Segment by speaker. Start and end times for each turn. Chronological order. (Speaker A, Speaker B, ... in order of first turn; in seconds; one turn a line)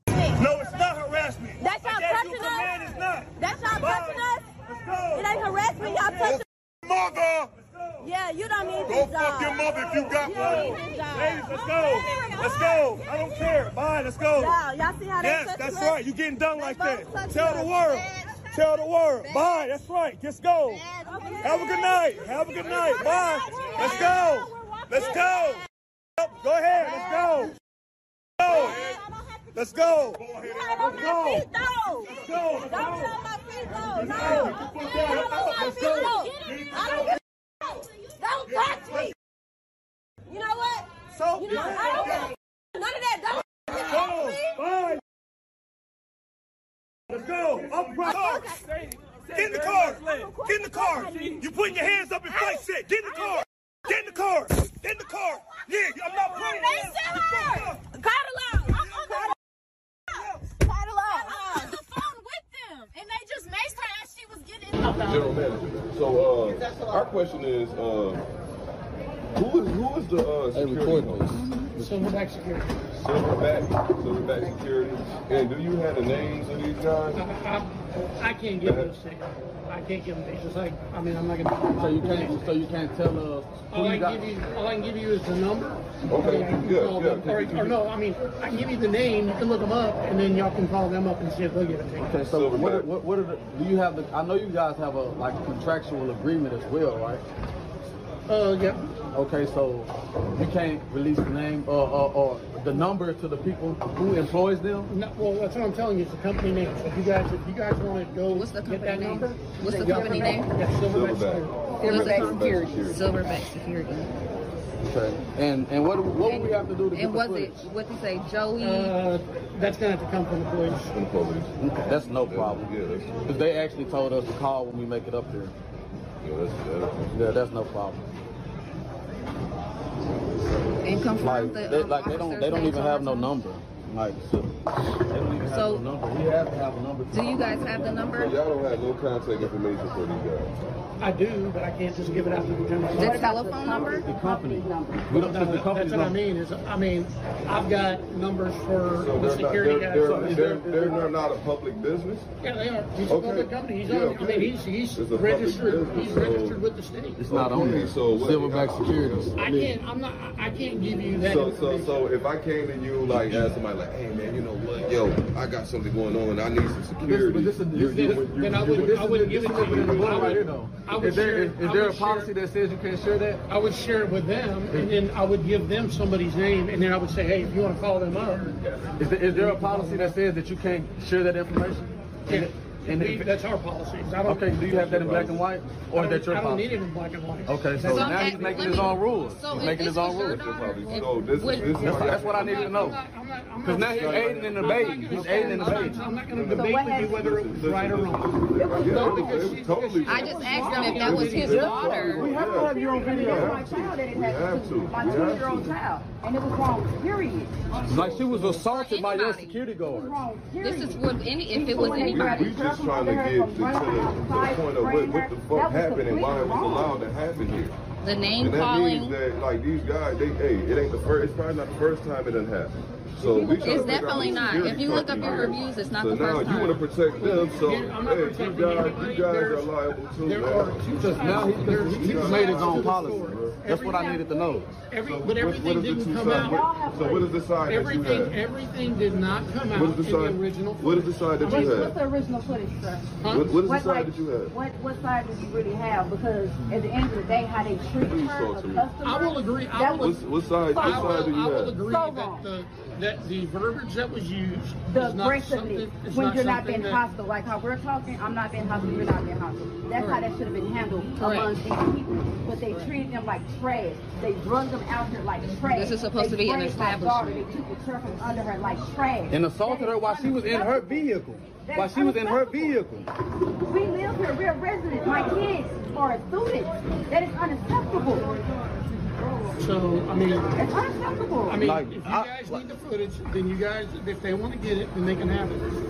Speaker A: 0.4-5.3
Speaker B: 1.7-2.9
Speaker B: 3.4-4.4
Speaker B: 5.1-6.4
Speaker A: 6.8-7.5
Speaker B: 8.1-12.9
Speaker C: 8.9-9.6
Speaker A: 8.9-14.6
Speaker C: 10.2-10.8
Speaker C: 11.8-12.6
Speaker B: 14.4-15.9
Speaker A: 15.2-25.6
Speaker B: 16.5-18.1
Speaker B: 19.2-19.6
Speaker B: 20.7-25.4
Speaker A: 26.2-27.5
Speaker B: 26.8-27.2
Speaker A: 28.4-28.8
Speaker B: 28.5-29.0
Speaker A: 29.5-31.5
Speaker B: 30.4-37.1
Speaker A: 32.1-33.1
Speaker C: 32.7-33.1
Speaker A: 34.0-37.1
Speaker B: 38.3-39.0
Speaker B: 40.4-40.8
Speaker A: 41.2-42.2
Speaker B: 41.4-42.3
Speaker C: 41.6-42.2
Speaker B: 43.9-44.4
Speaker A: 43.9-45.0
Speaker A: 47.1-48.6
Speaker B: 48.0-48.5
Speaker A: 49.3-57.8
Speaker B: 49.4-51.4
Speaker B: 56.4-59.1
Speaker B: 61.1-61.7
Speaker C: 61.2-64.7
Speaker D: 64.8-65.2
Speaker E: 64.9-68.3
Speaker E: 69.3-71.4
Speaker F: 70.5-72.1
Speaker D: 71.8-72.7
Speaker E: 72.9-77.2
Speaker D: 77.1-82.4
Speaker E: 78.6-78.9
Speaker F: 81.8-84.3
Speaker D: 83.7-92.1
Speaker E: 86.1-87.8
Speaker F: 92.0-97.2
Speaker E: 92.2-92.9
Speaker D: 98.3-98.8
Speaker F: 99.1-104.9
Speaker D: 104.9-111.6
Speaker G: 108.3-110.5
Speaker H: 109.7-110.4
Speaker E: 110.9-113.0
Speaker H: 111.8-112.8
Speaker G: 111.8-114.2
Speaker F: 114.8-117.6
Speaker G: 116.2-118.9
Speaker D: 118.6-120.9
Speaker E: 120.9-123.3
Speaker F: 121.6-122.7
Speaker F: 123.2-125.5
Speaker E: 126.2-127.3
Speaker F: 127.1-128.0
Speaker G: 130.8-133.3
Speaker F: 131.2-134.5
Speaker F: 135.1-137.9
Speaker G: 135.5-135.8
Speaker G: 137.1-138.4
Speaker E: 138.1-140.5
Speaker D: 141.0-143.2
Speaker G: 142.9-144.1
Speaker H: 143.0-145.7
Speaker F: 143.5-146.2
Speaker D: 145.1-150.4
Speaker E: 149.0-152.3
Speaker F: 150.0-151.0
Speaker D: 152.4-157.3
Speaker E: 153.1-156.6
Speaker F: 157.2-159.8
Speaker E: 157.3-159.4
Speaker D: 159.4-162.0
Speaker E: 161.2-170.5
Speaker F: 163.2-163.5
Speaker F: 167.0-173.4
Speaker D: 167.9-172.3
Speaker D: 173.5-178.6
Speaker F: 178.8-183.3
Speaker D: 179.2-180.2
Speaker D: 182.3-185.2
Speaker F: 184.2-186.7
Speaker E: 184.6-185.4
Speaker D: 185.9-188.9
Speaker F: 187.4-190.5
Speaker G: 187.8-192.9
Speaker E: 190.1-193.0
Speaker H: 190.9-192.7
Speaker F: 191.8-193.0
Speaker D: 192.8-202.3
Speaker F: 193.6-196.0
Speaker E: 193.7-195.3
Speaker G: 195.3-196.2
Speaker E: 196.3-205.8
Speaker H: 196.4-197.2
Speaker H: 198.6-199.7
Speaker G: 200.0-202.2
Speaker H: 200.4-201.6
Speaker F: 201.3-203.6
Speaker H: 202.5-207.8
Speaker E: 207.8-208.6
Speaker F: 207.8-210.2
Speaker G: 208.5-209.6
Speaker H: 209.8-217.0
Speaker G: 210.6-212.5
Speaker E: 211.7-217.8
Speaker G: 218.0-219.2
Speaker E: 218.4-233.6
Speaker H: 223.2-225.6
Speaker G: 223.6-226.8
Speaker D: 227.2-236.7
Speaker F: 230.9-234.8
Speaker E: 235.0-238.4
Speaker H: 236.2-237.4
Speaker D: 237.6-241.9
Speaker E: 239.7-241.9
Speaker H: 241.4-250.2
Speaker D: 243.2-243.5
Speaker E: 243.3-244.5
Speaker E: 248.0-248.9
Speaker D: 249.0-250.2
Speaker E: 250.0-251.8
Speaker H: 250.7-252.5
Speaker D: 250.7-257.0
Speaker H: 254.9-271.1
Speaker G: 260.0-260.3
Speaker G: 261.2-261.5
Speaker D: 262.6-262.9
Speaker G: 265.4-267.5
Speaker F: 269.3-273.1
Speaker H: 271.6-272.8
Speaker H: 273.7-278.3
Speaker D: 279.6-280.5
Speaker H: 280.5-281.6
Speaker D: 281.4-285.7
Speaker F: 281.6-282.6